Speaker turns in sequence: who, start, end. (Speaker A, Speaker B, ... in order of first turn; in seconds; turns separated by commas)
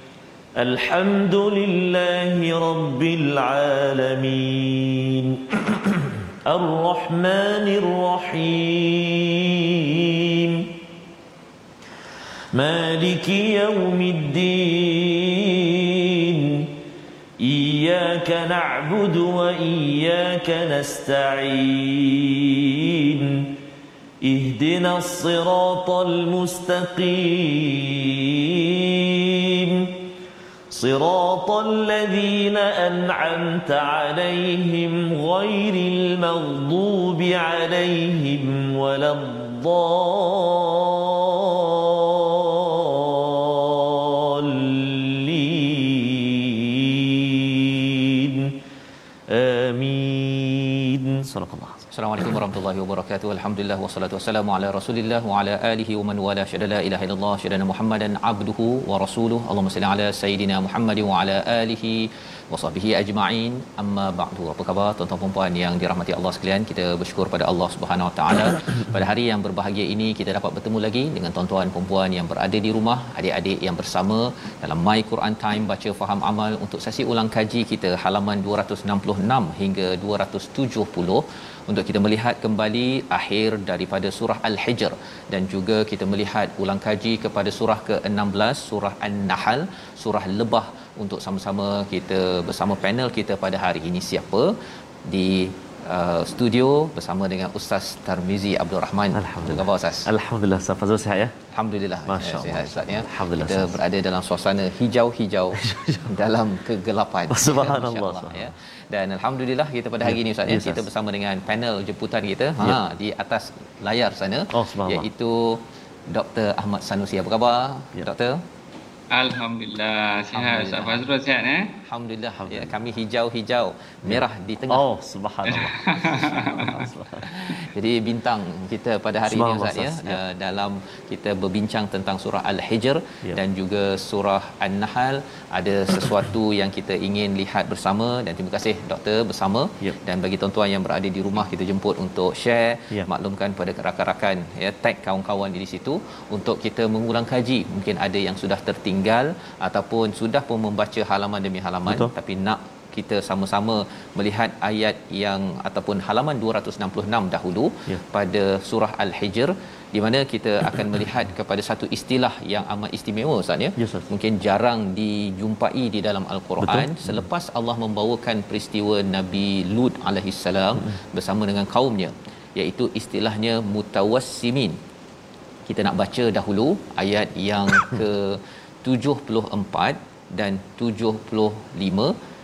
Speaker A: 0.6-10.8, Speaker A: 12.5-16.8, Speaker A: 17.4-23.6, Speaker A: 24.2-30.1, Speaker A: 30.7-48.6, Speaker A: 49.3-51.8, Speaker B: 51.9-100.1, Speaker A: 99.1-101.3, Speaker B: 101.5-118.4, Speaker A: 102.1-103.8, Speaker A: 105.5-106.2, Speaker A: 107.3-108.5, Speaker A: 110.0-110.9, Speaker A: 114.5-115.1, Speaker C: 119.1-121.7, Speaker B: 120.3-121.0, Speaker B: 121.8-124.8, Speaker A: 122.4-122.7, Speaker A: 124.0-127.3, Speaker C: 125.5-126.9, Speaker B: 127.2-174.8, Speaker A: 129.2-130.2, Speaker A: 151.9-152.1, Speaker A: 163.8-164.1, Speaker A: 166.6-167.2, Speaker B: 175.7-182.1